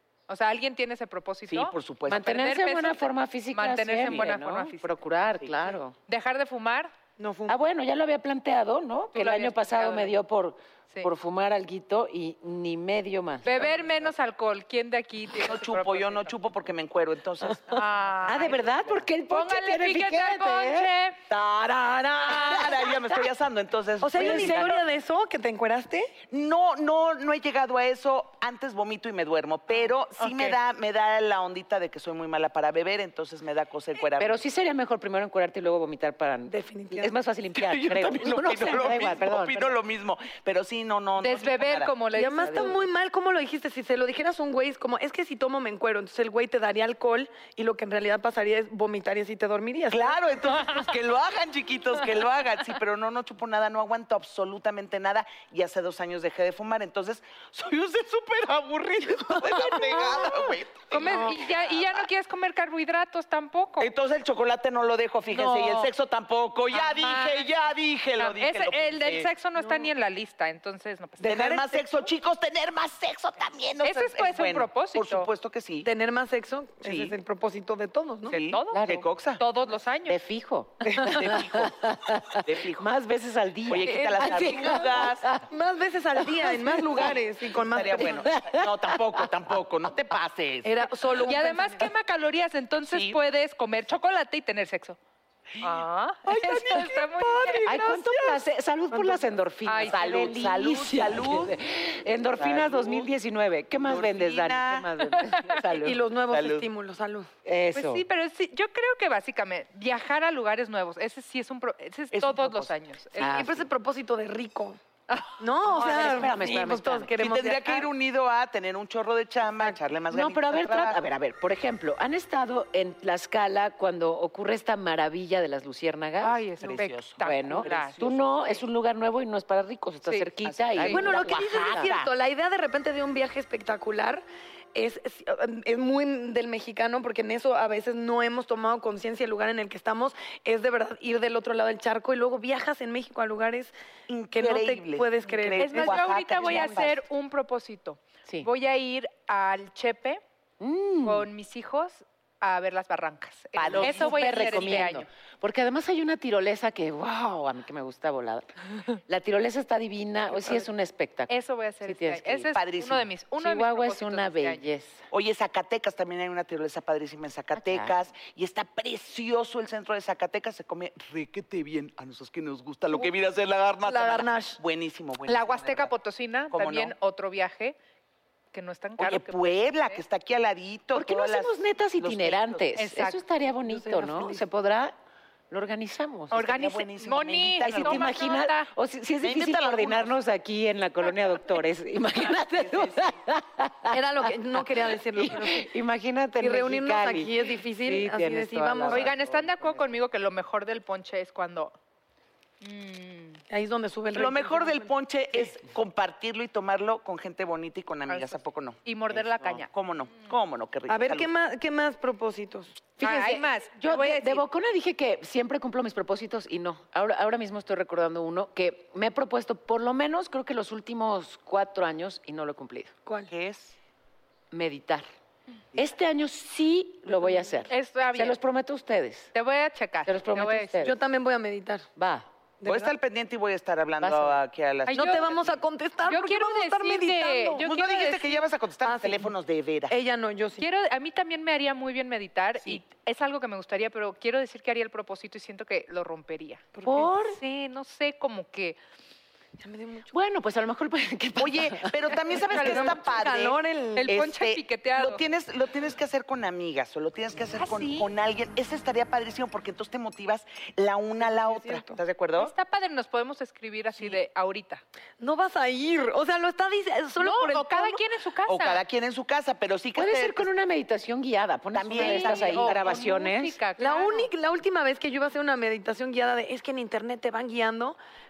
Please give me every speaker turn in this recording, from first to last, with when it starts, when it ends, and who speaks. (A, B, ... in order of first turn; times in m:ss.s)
0:00.3-0:04.9 A
0:01.4-0:02.2 B
0:02.1-0:06.0 C
0:06.1-0:06.9 A
0:07.2-0:07.6 D
0:07.5-0:14.1 C
0:09.1-0:10.1 A
0:13.4-0:16.4 A
0:15.4-0:18.6 B
0:17.7-0:18.6 A
0:18.3-0:20.9 C
0:19.3-0:21.2 A
0:21.3-0:24.8 B
0:22.2-0:23.2 C
0:24.0-0:26.1 D
0:24.1-0:24.8 C
0:26.3-0:34.4 B
0:30.2-0:30.6 A
0:34.2-0:39.7 C
0:36.5-0:37.2 D
0:37.5-0:41.9 B
0:41.2-0:42.8 A
0:42.1-0:50.2 D
0:49.9-1:01.8 B
0:59.9-1:00.3 A
1:00.9-1:03.9 A
1:01.0-1:01.5 D
1:03.8-1:09.3 B
1:05.3-1:05.9 A
1:06.7-1:07.5 A
1:08.2-1:11.6 A
1:09.6-1:09.9 D
1:11.2-1:11.8 D
1:11.2-1:15.9 B
1:13.8-1:15.3 A
1:15.8-1:18.4 D
1:16.8-1:17.2 B
1:18.2-1:20.2 A
1:18.3-1:19.4 B
1:18.7-1:19.0 C
1:20.0-1:25.4 C
1:21.1-1:21.7 B
1:22.4-1:22.9 B
1:23.7-1:25.3 B
1:23.8-1:28.2 D
1:26.4-1:27.1 C
1:26.8-1:30.7 B
1:28.0-1:29.0 C
1:30.6-1:31.9 D
1:31.2-1:35.0 A
1:32.8-1:33.2 B
1:35.6-1:38.4 B
1:35.6-1:37.8 A
1:37.6-1:46.0 C
1:38.9-1:39.2 D
1:39.6-1:40.0 A
1:39.9-1:41.6 B
1:42.4-1:43.1 B
1:43.7-1:44.9 B
1:45.1-1:45.6 A
1:45.7-1:47.3 D
1:46.3-1:46.7 B
1:47.4-1:48.0 C
1:47.7-1:53.4 A
1:52.1-1:52.7 B
1:53.2-1:53.7 C
1:53.2-1:54.8 D
1:55.4-1:57.9 D
1:55.6-1:57.1 C
1:57.2-2:01.0 B
2:00.1-2:06.4 C
2:06.2-2:08.6 A
2:06.6-2:08.2 B
2:07.2-2:11.9 C
2:10.0-2:11.1 A
2:10.4-2:12.1 B
2:10.9-2:14.2 D
2:14.7-2:23.7 D
2:24.1-2:27.0 B
2:24.3-2:26.9 D
2:25.6-2:30.2 A
2:30.6-2:31.3 C
2:31.0-2:35.1 A
2:33.6-2:34.9 B
2:33.7-2:38.5 C
2:39.1-2:41.3 C
2:41.3-2:44.6 A
2:41.8-2:42.5 C
2:42.5-2:43.1 B
2:43.4-2:45.0 C
2:45.1-2:55.9 B
2:47.6-2:47.9 C
2:53.8-2:54.6 D
2:55.3-2:57.8 A
2:56.5-2:56.9 B
2:58.5-3:00.0 A
2:59.0-3:02.7 B
3:00.9-3:04.9 C
3:02.8-3:03.2 A
3:03.8-3:04.4 D
3:05.5-3:06.4 C
3:06.3-3:08.7 A
3:06.3-3:08.1 B
3:07.6-3:14.0 C
3:09.2-3:10.2 B
3:12.5-3:13.2 B
3:13.9-3:15.7 D
3:14.7-3:20.0 C
3:16.4-3:19.1 D
3:18.9-3:21.7 A
3:22.6-3:23.4 A
3:23.5-3:25.5 D
3:24.1-3:28.8 B
3:28.1-3:29.7 A
3:29.6-3:31.3 B
3:30.9-3:32.8 D
3:33.0-3:42.9 C
3:33.0-3:34.4 A
3:43.0-3:43.3 D
3:43.3-3:43.8 B
3:44.5-3:45.0 C
3:45.7-3:49.3 C
3:47.7-3:48.4 A
3:49.3-3:50.9 A
3:50.0-3:51.0 C
3:50.8-3:51.9 D
3:52.0-3:52.3 C
3:52.6-3:52.9 D
3:52.6-3:55.6 B
3:54.0-3:54.4 C
3:54.9-3:55.3 A
3:54.9-3:57.6 D
3:56.0-3:58.4 A
3:57.6-4:00.0 B
3:58.8-3:59.3 D
3:59.9-4:00.6 D
4:00.6-4:06.8 A
4:06.8-4:07.1 D
4:06.8-4:07.4 C
4:07.3-4:08.8 A
4:09.6-4:10.1 D
4:10.1-4:12.2 C
4:11.4-4:22.5 B
4:12.3-4:13.0 A
4:12.5-4:14.1 D
4:14.0-4:15.2 A
4:17.6-4:18.1 A
4:21.2-4:22.0 D
4:22.4-4:24.8 A
4:25.2-4:28.0 D
4:27.2-4:28.8 A
4:28.4-4:30.5 B
4:30.0-4:33.6 C
4:31.7-4:33.0 B
4:31.9-4:34.3 A
4:33.8-4:38.0 D